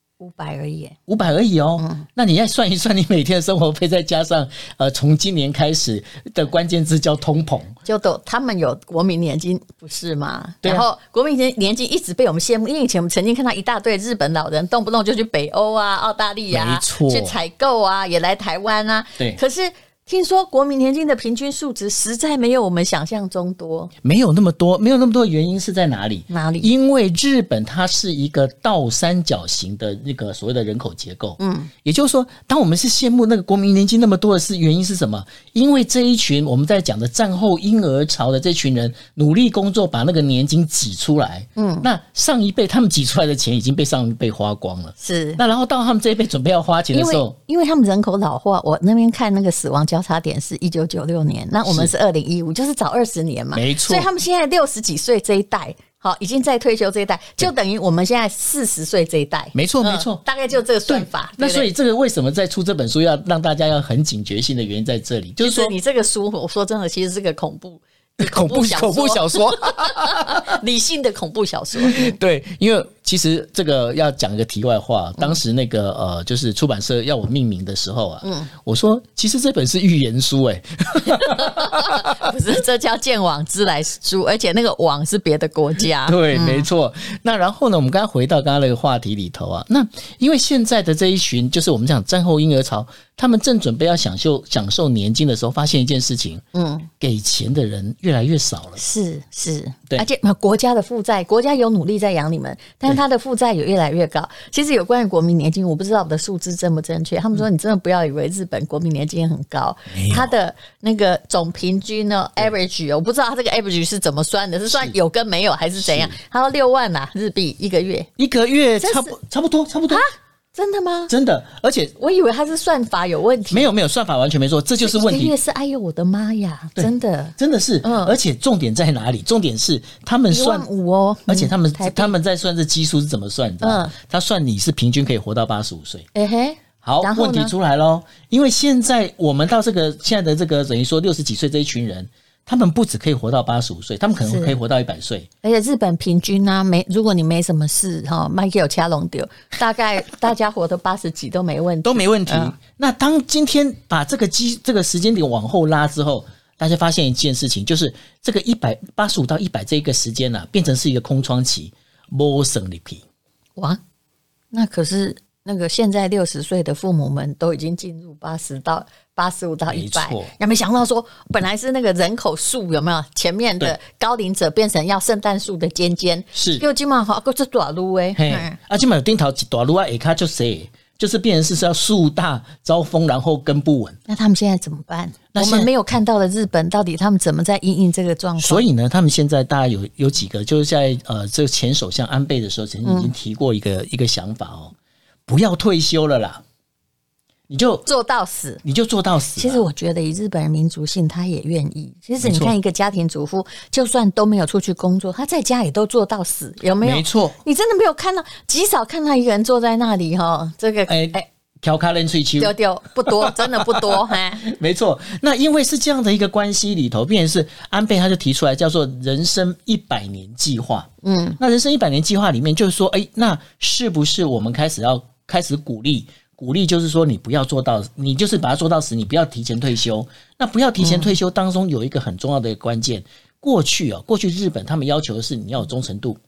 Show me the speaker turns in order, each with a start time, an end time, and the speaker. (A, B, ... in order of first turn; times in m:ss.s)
0:00.2-0:01.0 A
0:01.1-0:07.8 B
0:01.8-0:02.0 A
0:07.8-0:23.9 A
0:16.5-0:17.4 B
0:24.0-0:47.4 B
0:26.3-0:26.7 A
0:31.4-0:31.7 A
0:41.6-0:41.9 A
0:45.0-0:45.4 A
0:46.9-1:01.7 A
0:51.6-0:51.9 B
0:53.5-0:54.1 B
0:59.5-1:00.2 B
1:00.9-1:05.8 B
1:05.4-1:12.1 A
1:08.2-1:10.6 B
1:11.8-1:22.2 B
1:18.2-1:18.5 A
1:21.1-1:26.7 A
1:26.0-1:36.4 B
1:36.5-1:36.9 A
1:37.0-1:38.8 B
1:38.8-1:58.1 A
1:49.9-1:50.3 B
1:54.7-1:55.0 B
1:55.8-1:56.2 B
1:58.2-2:00.0 B
1:58.8-1:59.2 A
1:59.9-2:01.1 A
2:01.1-2:02.0 B
2:02.0-2:03.7 A
2:03.5-2:05.3 B
2:04.8-2:08.2 A
2:06.8-2:10.7 B
2:10.3-2:12.1 A
2:11.3-2:16.1 B
2:13.6-2:14.0 A
2:16.2-2:17.5 A
2:16.8-2:25.3 B
2:24.2-2:24.6 A
2:25.4-2:32.6 A
2:31.8-2:43.0 B
2:44.5-2:58.6 A
2:49.7-2:50.3 B
2:56.3-2:56.6 B
2:58.2-3:04.0 B
3:04.1-3:08.6 A
3:05.3-3:05.7 B
3:08.4-3:14.7 B
3:12.8-3:13.1 A
3:15.3-3:16.4 B
3:17.5-3:17.9 B
3:17.9-3:18.6 A
3:18.6-3:19.6 B
3:19.4-3:31.3 A
3:22.2-3:22.5 B
3:26.8-3:27.4 B
3:30.9-3:56.2 B
3:32.4-3:34.4 A
3:41.0-3:41.4 A
3:50.8-3:51.1 A